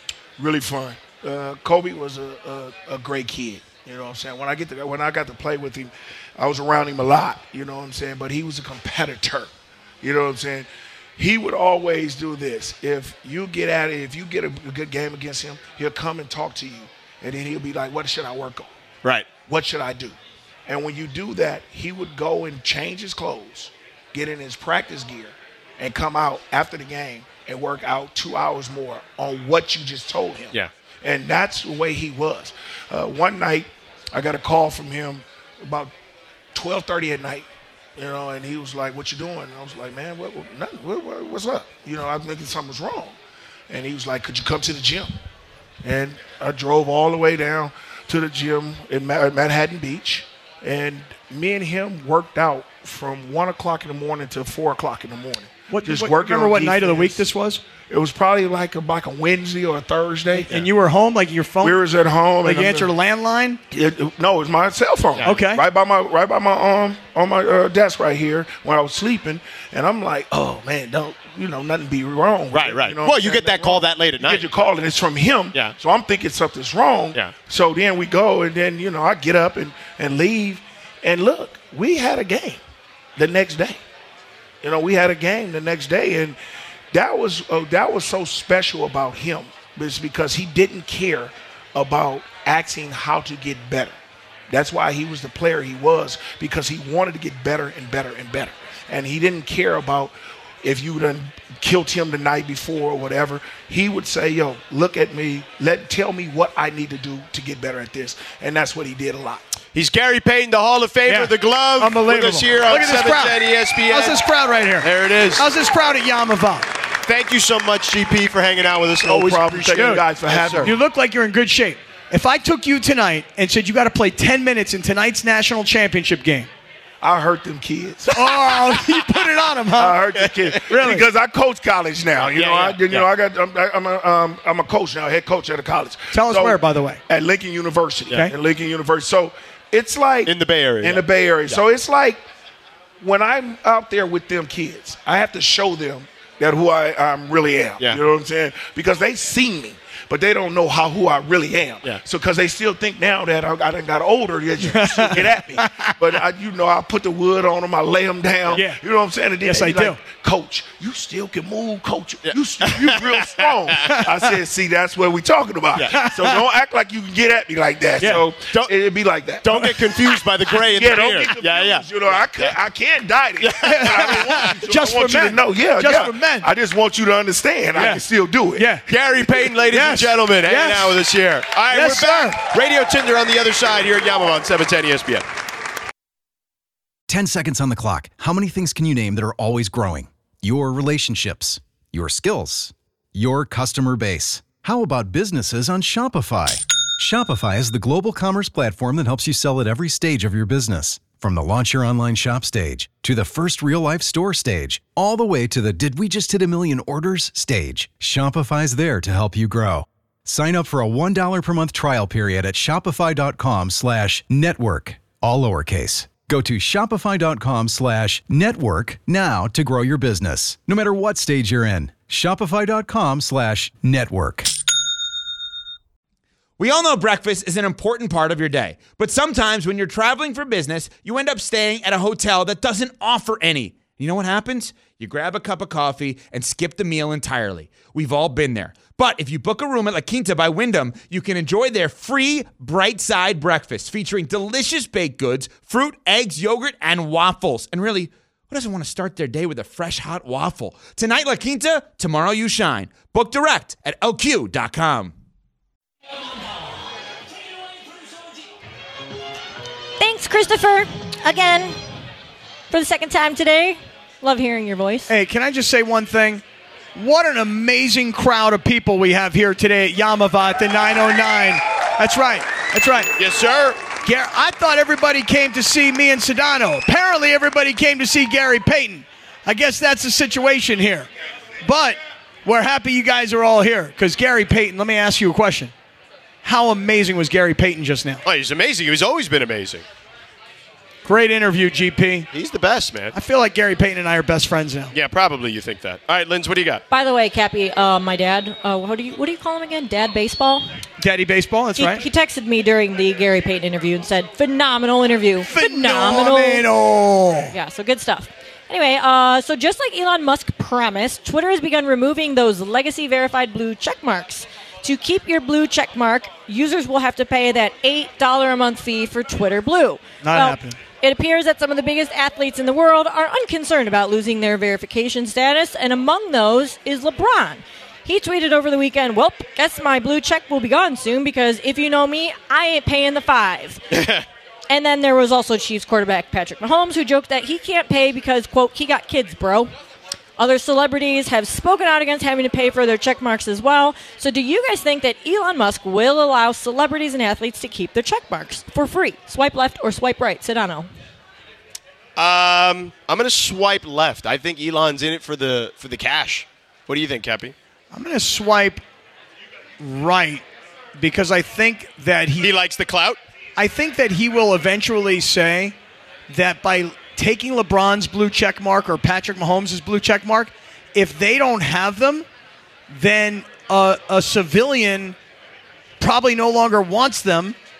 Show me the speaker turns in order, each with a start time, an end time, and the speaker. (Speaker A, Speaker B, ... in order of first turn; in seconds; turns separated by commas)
Speaker A: 0.4-9.5, Speaker A: 10.0-18.7, Speaker B: 19.0-19.4, Speaker A: 19.4-20.1, Speaker A: 20.7-35.9, Speaker A: 36.5-43.1, Speaker A: 43.7-45.1, Speaker A: 45.8-60.6, Speaker C: 55.7-57.6, Speaker C: 60.3-61.8, Speaker A: 61.6-62.9, Speaker C: 62.4-63.6, Speaker A: 63.7-82.6, Speaker B: 65.2-65.4, Speaker C: 65.2-65.6, Speaker B: 72.5-74.5, Speaker A: 83.2-83.8, Speaker A: 84.6-86.4, Speaker A: 86.9-94.0, Speaker A: 94.5-109.5, Speaker B: 109.7-114.2, Speaker C: 111.0-116.7, Speaker B: 114.8-115.5, Speaker B: 117.0-120.7, Speaker A: 119.0-120.7, Speaker C: 119.6-120.0, Speaker C: 120.6-126.5, Speaker A: 127.0-128.3, Speaker C: 128.1-130.0, Speaker A: 129.7-142.2, Speaker B: 130.2-130.6, Speaker C: 130.7-131.0, Speaker B: 132.2-133.1, Speaker C: 136.1-137.0, Speaker B: 140.2-141.6, Speaker A: 143.0-169.8, Speaker C: 154.6-155.9, Speaker C: 158.5-158.8, Speaker C: 159.4-160.0, Speaker B: 162.2-163.5, Speaker C: 163.8-164.1, Speaker C: 165.9-166.3, Speaker B: 168.4-168.7, Speaker B: 169.4-171.8, Speaker A: 170.6-178.8, Speaker B: 173.4-174.6, Speaker C: 173.6-176.5, Speaker C: 177.7-178.0, Speaker C: 178.6-178.8, Speaker B: 178.8-185.2, Speaker C: 179.4-181.1, Speaker C: 181.7-182.4, Speaker D: 187.1-224.5, Speaker E: 226.6-255.1, Speaker F: 260.0-261.8, Speaker F: 262.7-265.1, Speaker C: 265.1-266.4, Speaker C: 266.9-273.1, Speaker B: 273.1-273.8, Speaker C: 274.0-281.1, Speaker C: 281.6-285.7, Speaker C: 286.4-288.2, Speaker B: 288.2-289.8, Speaker C: 291.0-292.3, Speaker B: 292.3-293.1, Speaker C: 293.1-294.9, Speaker B: 294.9-296.8, Speaker F: 296.9-300.6, Speaker C: 301.0-302.0, Speaker F: 301.8-306.6, Speaker C: 305.4-307.5, Speaker F: 307.5-333.9, Speaker C: 320.2-320.8, Speaker B: 333.9-334.2, Speaker F: 334.7-339.7, Speaker F: 340.4-350.9, Speaker B: 352.1-357.5, Speaker C: 357.9-358.8, Speaker C: 359.8-360.4, Speaker C: 361.0-362.5, Speaker B: 362.4-363.2, Speaker C: 363.6-365.7, Speaker C: 366.3-372.2, Speaker C: 372.9-375.1, Speaker C: 376.0-377.5